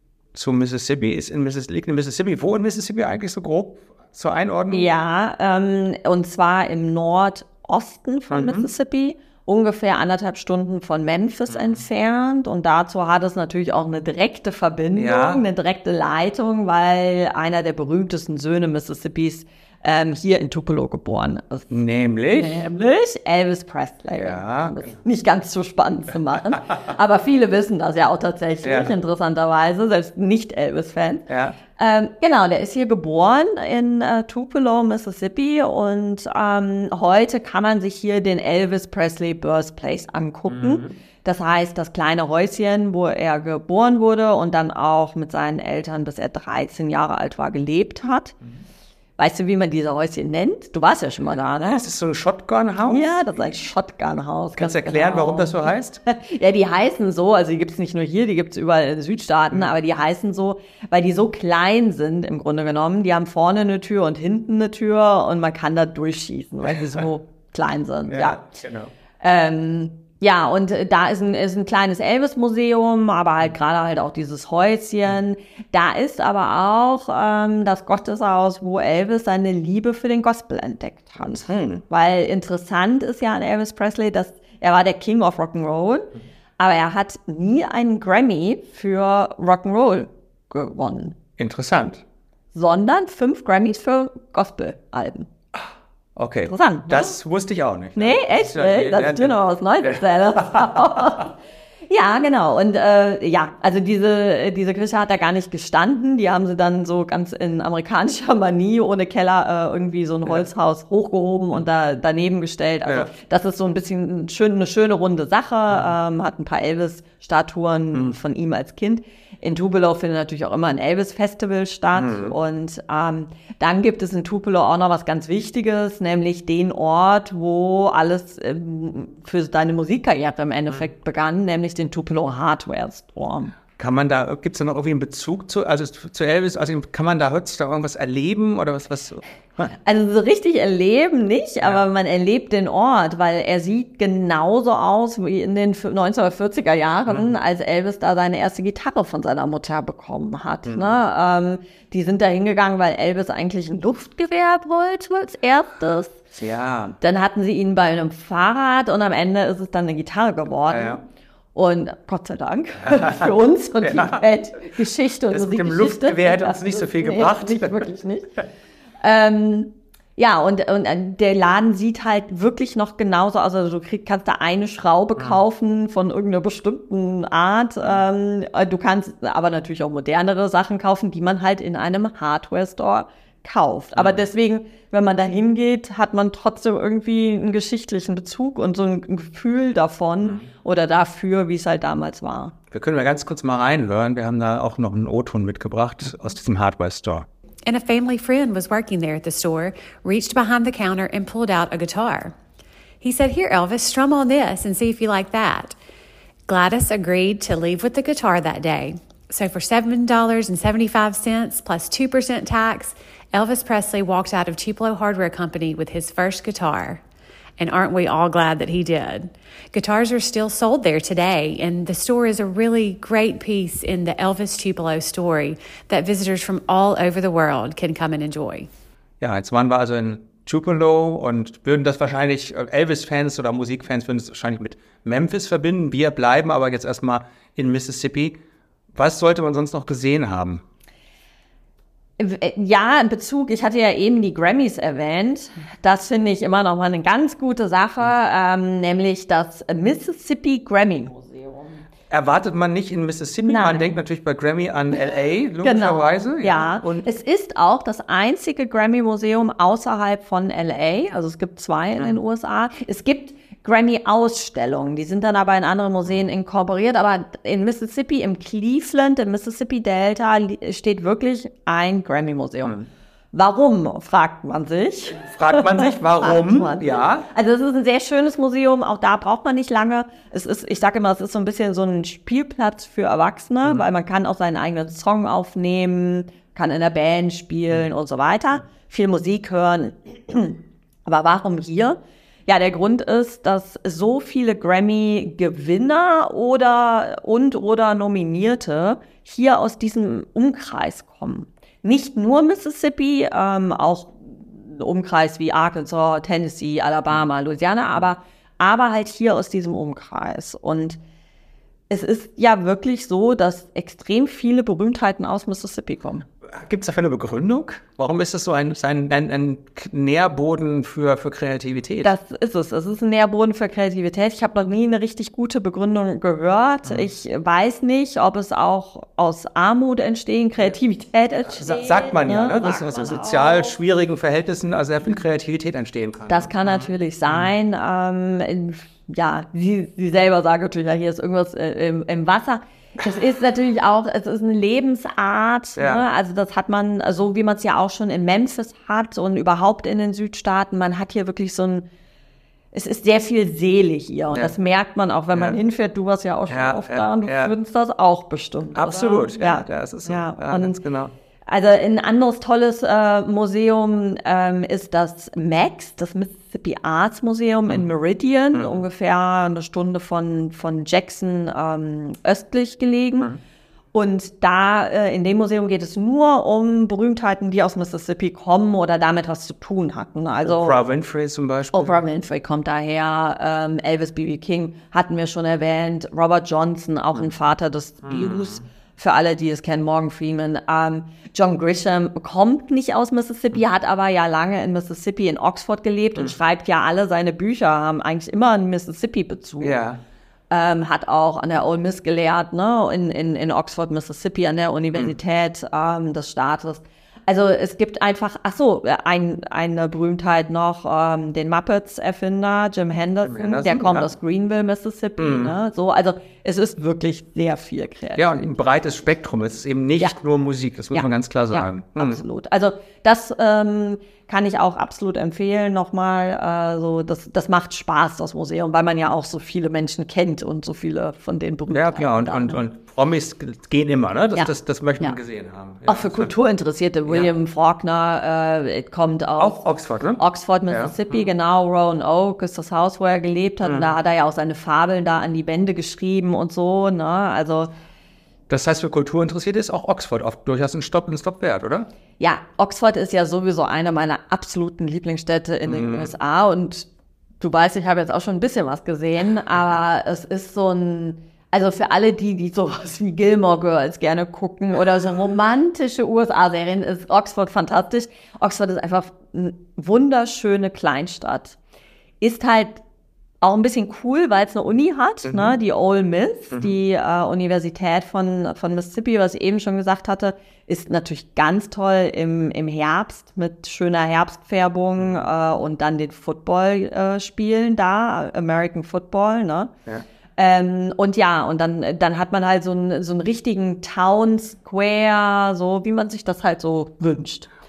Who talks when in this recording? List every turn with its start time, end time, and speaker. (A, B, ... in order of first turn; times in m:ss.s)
0:00.3-0:04.9 A
0:04.7-0:21.7 B
0:08.3-0:08.7 A
0:11.5-0:11.8 A
0:14.9-0:15.4 A
0:21.7-0:22.6 A
0:22.3-0:48.3 B
0:24.1-0:24.9 A
0:28.6-0:28.9 A
0:31.3-0:31.6 A
0:40.5-0:40.9 A
0:49.2-0:51.8 B
0:51.7-0:53.6 A
0:52.9-1:08.4 B
0:54.6-0:56.0 A
1:08.1-1:08.9 A
1:09.2-1:26.1 B
1:21.3-1:21.8 A
1:26.6-1:31.2 B
1:31.4-1:32.0 A
1:32.5-1:35.3 B
1:36.2-1:40.9 A
1:36.5-1:37.1 B
1:38.0-1:41.3 B
1:41.9-2:13.5 B
2:01.9-2:02.3 A
2:13.7-2:19.7 A
2:19.7-2:36.2 B
2:36.4-2:37.0 A
2:37.0-2:41.0 B
2:40.7-2:41.0 A
2:41.5-2:48.4 B
2:42.9-2:43.3 A
2:43.8-2:44.2 A
2:45.3-2:47.9 A
2:49.0-3:12.5 B
3:12.7-3:17.3 A
3:17.6-3:22.3 C
3:23.0-3:25.8 C
3:26.5-3:37.0 C
3:37.6-3:48.7 C
3:49.2-3:58.4 A
3:58.9-4:00.6 A
4:02.2-4:11.8 B
4:12.1-4:17.0 A
4:13.4-4:13.9 B
4:15.6-4:32.8 B
4:33.3-5:11.0 B
4:35.1-4:37.3 A
5:11.9-5:16.2 B
5:16.5-5:22.1 A
5:22.0-5:33.7 B
5:31.5-5:37.5 A
5:36.3-5:51.8 B
5:45.8-5:46.0 A
5:52.7-6:00.8 B
5:56.5-5:57.5 A
5:58.7-6:01.1 A
6:01.5-6:13.3 B
6:08.5-6:08.8 A
6:13.9-6:20.8 B
6:20.4-6:22.0 A
6:21.7-6:39.8 B
6:28.0-6:28.6 A
6:39.6-6:40.0 A
6:40.5-6:58.2 B
6:53.2-6:54.1 A
6:55.2-6:55.5 A
6:58.2-7:02.2 A
7:00.9-7:12.6 B
7:11.7-7:16.3 A
7:14.3-7:15.2 B
7:15.8-7:19.6 B
7:19.4-7:21.0 A
7:20.2-7:27.7 B
7:28.5-7:31.9 A
7:32.2-7:36.9 B
7:35.7-7:36.1 A
7:37.4-7:51.6 B
7:52.2-7:52.8 B
7:53.4-8:09.7 B
7:55.2-7:55.5 A
8:10.4-8:17.5 B